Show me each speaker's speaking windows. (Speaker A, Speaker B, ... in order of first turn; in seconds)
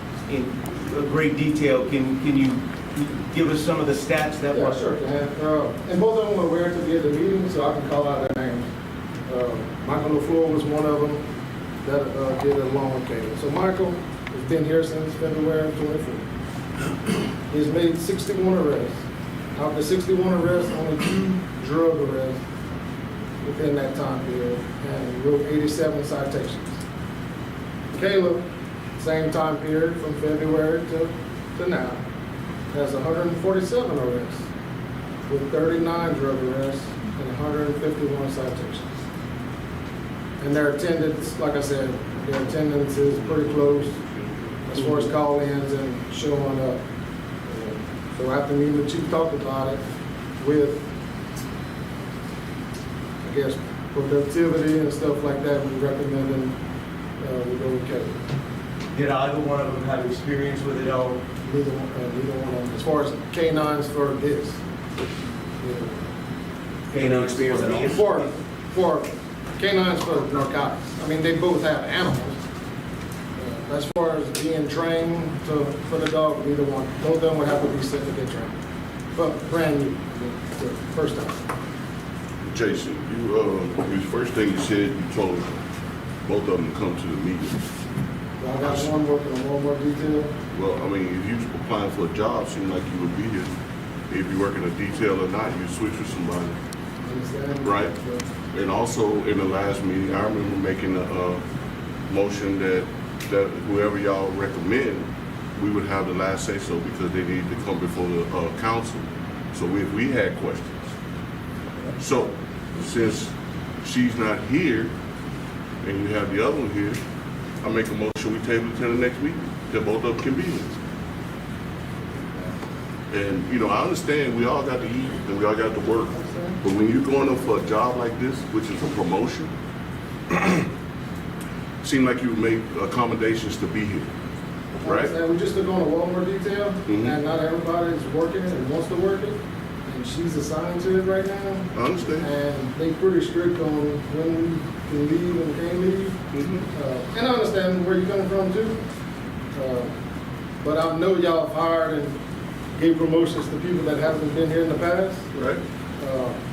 Speaker A: 0.3-4.8, 58.9-61.2, 66.9-68.3
Speaker B: 4.5-8.7, 9.3-11.2, 11.8-16.2, 17.5-19.0, 19.6-22.4, 23.4-26.8, 27.9-28.4, 29.0-32.0, 32.7-34.5, 35.3-39.0, 40.4-44.0, 44.7-46.8, 47.5-49.8, 50.4-50.9, 53.2-56.6, 57.2-58.2, 61.4-64.6, 65.6-66.0, 67.7-72.4, 73.4-78.6, 79.2-81.4, 88.4-90.3, 97.0-98.3, 126.1-126.6, 134.8-146.2, 146.7-148.8, 149.6-149.9, 150.6-152.2, 152.8-155.3, 156.0-156.4
Speaker C: 43.0-44.9, 82.4-85.7, 86.2-87.7, 88.6-88.9, 90.5-93.5, 94.1-96.6, 97.6-98.0, 98.5-101.5, 102.1-110.9, 112.0-114.9, 115.8-117.0, 117.6-120.7, 123.1-129.5, 130.3-130.7, 131.8-134.1, 134.8-135.2, 136.9-137.2, 141.7-142.3, 146.3-146.7, 155.3-155.6